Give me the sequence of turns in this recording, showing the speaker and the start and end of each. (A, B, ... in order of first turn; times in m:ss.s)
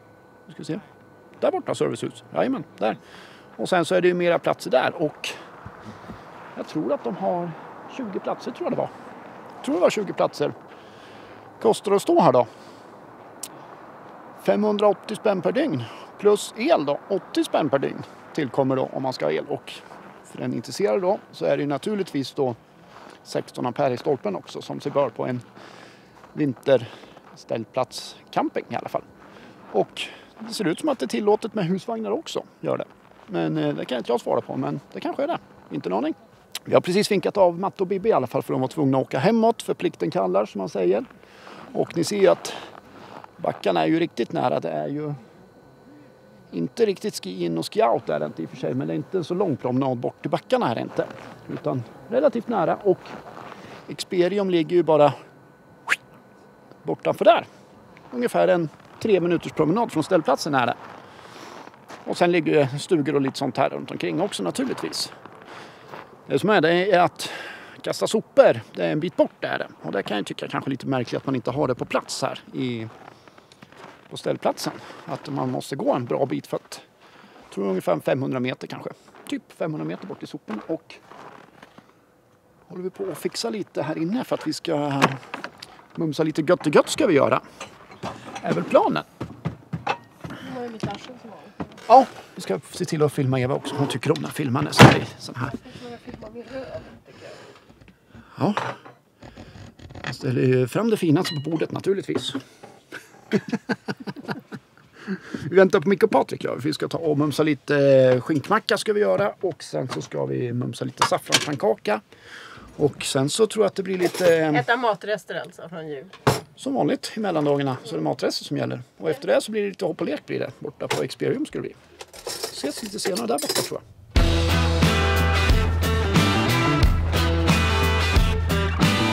0:00.5-0:00.8 A
0:01.4-0:03.0 A
0:03.6-0:05.3 A
0:06.6-0:08.9 A
0:09.6-0:10.6 A
0:11.6-0:12.5 A
0:14.4-0:22.6 A
0:23.2-0:25.4 A
0:26.3-0:29.0 A
0:29.7-0:41.1 A
0:41.7-0:42.6 A
0:43.4-0:45.2 A
0:46.5-0:53.1 A
0:53.9-0:55.1 A
0:56.8-0:57.5 A
0:58.1-1:00.8 A
1:02.0-1:05.1 A
1:06.3-1:12.9 A
1:14.1-1:16.8 A
1:17.5-1:21.0 A
1:22.7-1:25.2 A
1:26.0-1:27.4 A
1:28.4-1:29.1 A
1:30.4-1:31.6 B
1:31.9-1:35.5 A
1:35.5-1:37.4 B
1:38.4-1:38.7 A
1:40.0-1:42.4 A
1:45.1-1:52.0 A
1:52.8-1:54.6 A
1:54.5-1:56.1 B
1:56.6-2:01.8 A
2:02.5-2:03.8 A